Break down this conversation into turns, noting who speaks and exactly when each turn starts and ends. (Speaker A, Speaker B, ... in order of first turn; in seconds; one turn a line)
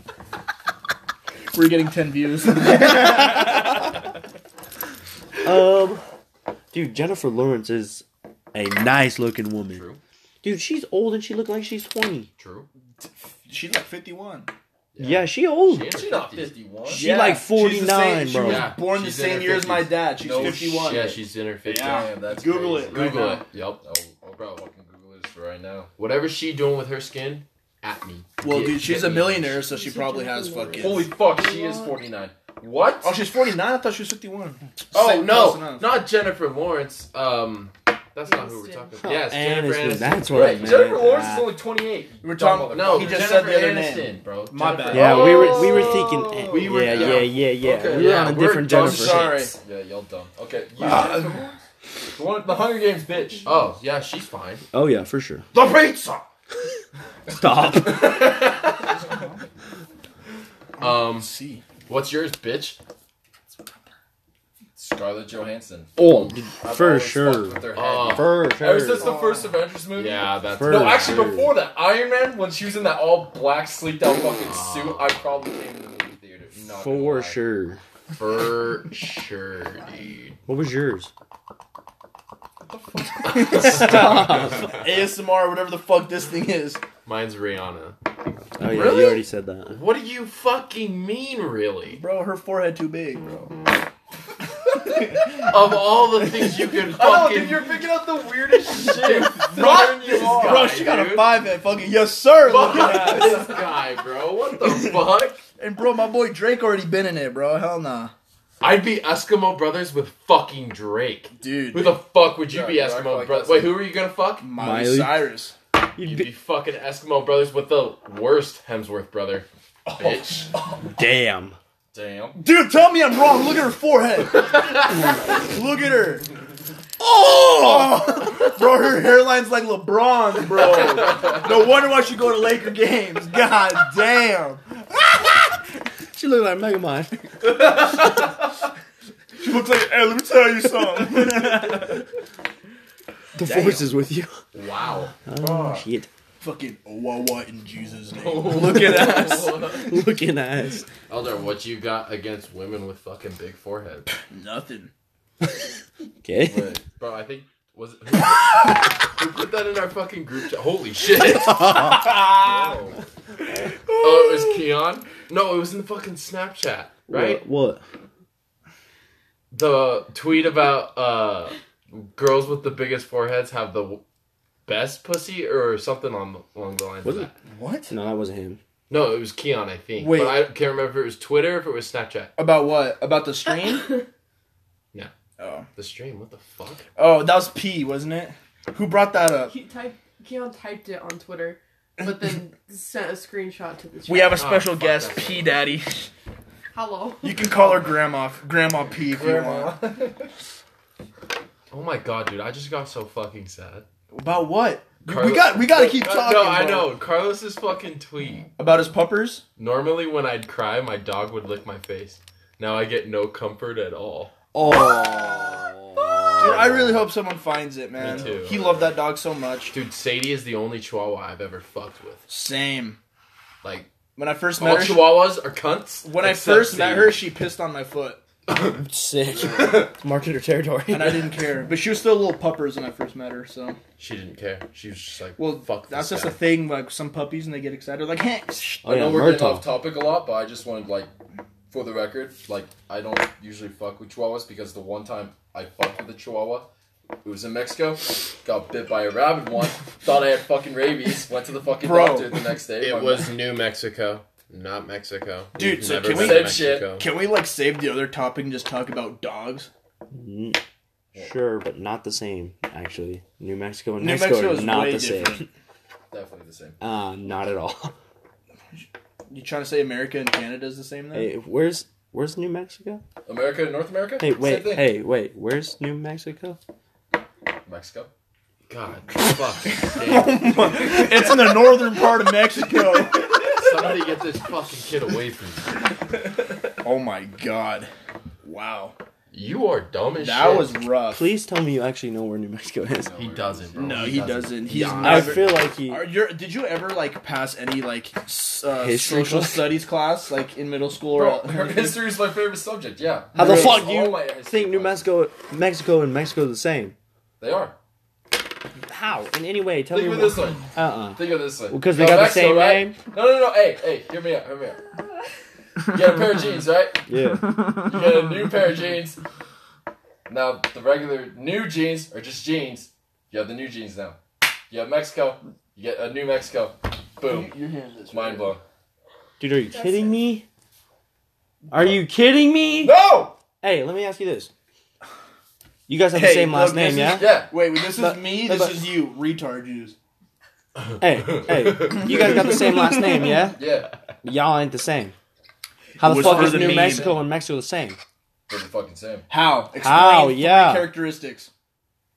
Speaker A: 1.5-3.9
Speaker B: 3.0-3.7
Speaker B: 5.4-6.0
Speaker B: 6.7-9.8
Speaker C: 9.7-10.0
Speaker B: 10.4-12.3
Speaker C: 12.4-12.7
Speaker A: 13.4-14.5
Speaker C: 14.9-16.5
Speaker B: 15.0-15.9
Speaker D: 15.9-17.1
Speaker B: 16.9-18.7
Speaker A: 16.9-23.4
Speaker C: 18.4-23.8
Speaker D: 20.1-21.2
Speaker D: 21.8-23.2
Speaker D: 23.8-25.9
Speaker C: 26.0-29.6
Speaker A: 28.4-31.1
Speaker E: 29.6-31.9
Speaker D: 30.8-33.1
Speaker A: 33.0-35.9
Speaker C: 34.9-40.9
Speaker E: 38.3-39.0
Speaker B: 39.0-41.5
Speaker D: 40.3-43.5
Speaker A: 42.2-46.5
Speaker C: 42.7-46.1
Speaker D: 44.8-51.5
Speaker B: 44.9-49.4
Speaker C: 46.9-47.3
Speaker C: 47.9-48.5
Speaker A: 48.7-49.5
Speaker A: 50.8-51.5
Speaker D: 52.1-53.6
Speaker C: 53.4-54.6
Speaker B: 54.7-55.5
Speaker D: 55.5-56.2
Speaker B: 57.4-58.3
Speaker D: 57.8-58.2
Speaker C: 57.9-58.8
Speaker A: 59.0-59.4
Speaker C: 60.8-61.3
Speaker A: 60.8-61.6
Speaker C: 61.9-62.8
Speaker D: 64.8-77.4
Speaker B: 66.0-69.1
Speaker C: 67.7-68.5
Speaker A: 69.0-69.6
Speaker C: 69.9-71.2
Speaker B: 70.5-71.5
Speaker C: 74.4-75.4
Speaker B: 76.7-77.8
Speaker C: 78.1-80.4
Speaker B: 80.5-81.1
Speaker D: 82.7-84.2
Speaker C: 83.2-84.8
Speaker A: 83.3-86.8
Speaker B: 83.5-84.7
Speaker C: 87.0-88.0
Speaker B: 88.6-89.8
Speaker C: 89.7-92.0
Speaker A: 91.9-93.5
Speaker C: 94.8-97.7
Speaker A: 94.8-95.6
Speaker A: 96.2-96.6
Speaker D: 96.9-100.8
Speaker A: 98.7-103.6
Speaker C: 98.9-101.4
Speaker C: 102.4-105.4
Speaker D: 102.5-103.5
Speaker A: 105.6-108.1
Speaker C: 108.6-114.5
Speaker A: 111.3-112.0
Speaker D: 112.5-113.8
Speaker A: 114.4-115.5
Speaker B: 114.6-115.3
Speaker B: 116.0-116.3
Speaker C: 116.0-120.5
Speaker D: 120.0-120.8
Speaker B: 120.9-121.5
Speaker D: 121.9-122.4
Speaker A: 122.4-126.3
Speaker A: 127.3-135.5
Speaker B: 127.4-128.2
Speaker D: 130.7-131.2
Speaker B: 136.1-137.1
Speaker A: 137.7-138.3
Speaker A: 139.4-142.0
Speaker B: 143.3-144.3
Speaker A: 143.4-143.8
Speaker C: 144.5-145.1
Speaker B: 145.2-146.1
Speaker D: 145.4-145.8
Speaker A: 146.4-149.9
Speaker C: 148.1-150.0
Speaker B: 148.8-150.8
Speaker C: 151.1-154.1
Speaker A: 154.2-154.9
Speaker B: 156.2-156.8
Speaker C: 156.5-163.0
Speaker B: 161.5-161.9
Speaker A: 161.9-162.7
Speaker A: 163.9-164.6
Speaker C: 163.9-167.4
Speaker B: 167.1-167.8
Speaker C: 169.5-174.0
Speaker C: 174.7-177.3
Speaker B: 177.0-177.3
Speaker A: 177.5-177.9
Speaker B: 177.9-178.6
Speaker C: 178.9-182.3
Speaker A: 180.0-180.5
Speaker A: 182.4-184.0
Speaker A: 185.4-185.7
Speaker C: 185.7-186.8
Speaker A: 186.9-189.5
Speaker E: 189.5-194.6
Speaker A: 192.0-192.3
Speaker A: 194.0-196.1
Speaker C: 194.3-195.6
Speaker E: 196.7-197.6
Speaker A: 197.2-199.8
Speaker D: 198.7-200.3
Speaker C: 201.7-203.8
Speaker A: 204.1-206.9
Speaker C: 205.1-208.5
Speaker A: 208.6-209.4
Speaker C: 209.6-214.3
Speaker B: 214.5-217.0
Speaker A: 214.6-215.5
Speaker A: 216.4-219.8
Speaker C: 216.6-216.9
Speaker C: 218.0-218.9
Speaker D: 218.1-218.3
Speaker C: 219.7-222.3
Speaker A: 222.3-223.0
Speaker C: 223.6-223.9
Speaker A: 224.2-225.3
Speaker C: 224.6-227.2
Speaker A: 226.0-228.2
Speaker B: 228.6-231.4
Speaker A: 230.9-233.8
Speaker C: 234.0-236.4
Speaker A: 235.4-238.7
Speaker D: 238.6-241.1
Speaker B: 238.8-239.7
Speaker D: 241.7-246.7
Speaker D: 247.2-253.3
Speaker A: 251.8-252.5
Speaker C: 252.8-257.1
Speaker A: 255.5-259.7
Speaker D: 255.8-256.9
Speaker B: 260.1-260.6
Speaker B: 261.1-265.4
Speaker A: 264.0-265.4
Speaker D: 266.1-266.8
Speaker B: 266.8-267.9
Speaker A: 268.8-271.3
Speaker B: 271.1-273.0
Speaker D: 273.2-274.9
Speaker B: 274.2-276.6
Speaker D: 277.6-278.1
Speaker C: 278.7-280.9
Speaker A: 279.8-283.4
Speaker C: 283.4-285.8
Speaker A: 286.8-287.9
Speaker A: 288.4-288.9
Speaker C: 289.3-290.8
Speaker A: 290.2-291.2
Speaker B: 291.1-293.1
Speaker D: 292.9-294.4
Speaker C: 293.2-295.6
Speaker A: 293.8-302.1
Speaker B: 294.7-296.1
Speaker B: 298.7-299.8
Speaker D: 301.1-305.1
Speaker A: 303.3-303.9
Speaker B: 303.3-306.9
Speaker D: 307.4-307.8
Speaker B: 308.8-313.0
Speaker D: 309.9-314.8
Speaker D: 315.9-317.1
Speaker B: 317.1-317.5
Speaker D: 317.7-319.2
Speaker D: 320.3-324.2
Speaker D: 324.7-327.5
Speaker A: 327.2-328.5
Speaker D: 328.1-328.6
Speaker B: 329.4-330.4
Speaker E: 329.7-330.2
Speaker B: 331.7-333.0
Speaker D: 332.8-333.4
Speaker B: 333.6-334.5
Speaker B: 335.9-338.9
Speaker A: 336.1-339.9
Speaker D: 337.1-337.5
Speaker C: 340.9-342.0
Speaker B: 341.0-343.6
Speaker A: 341.9-342.9
Speaker D: 343.6-343.9
Speaker B: 344.2-345.1
Speaker A: 346.0-347.2
Speaker B: 346.0-348.0
Speaker D: 346.1-347.2
Speaker D: 348.5-349.3
Speaker A: 349.3-351.5
Speaker B: 349.8-350.9